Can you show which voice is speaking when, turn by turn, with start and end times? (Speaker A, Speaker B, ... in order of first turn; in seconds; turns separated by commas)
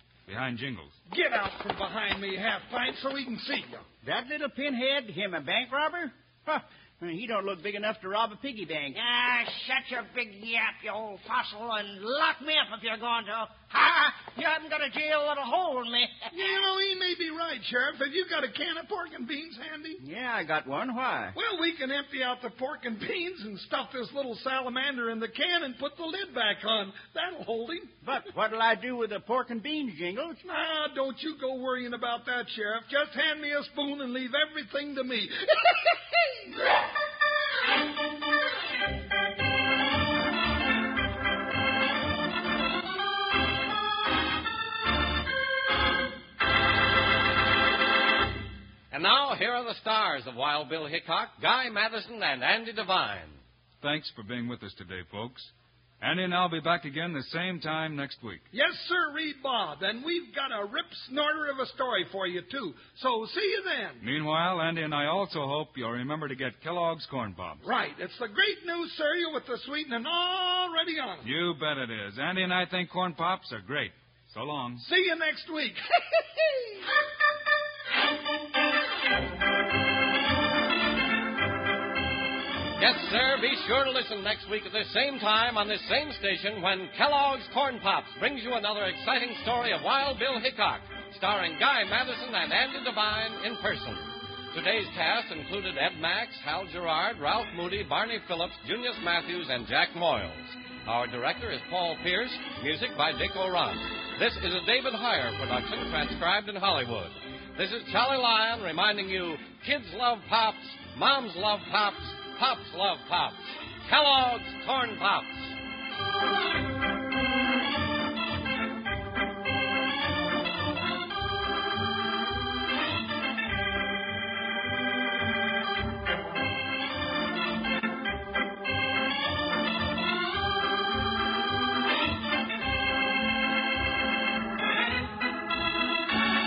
Speaker A: 0.3-0.9, Speaker B: 1.1-3.9, Speaker C: 4.0-9.0, Speaker D: 8.9-16.3, Speaker B: 16.3-20.0, Speaker C: 20.0-21.4, Speaker B: 21.3-27.9, Speaker C: 28.0-30.4, Speaker B: 30.4-36.0, Speaker E: 48.9-53.4, Speaker A: 53.8-58.4, Speaker B: 58.5-64.0, Speaker A: 64.0-67.7, Speaker B: 67.6-71.3, Speaker A: 71.2-74.9, Speaker B: 74.8-75.8, Speaker E: 82.8-115.6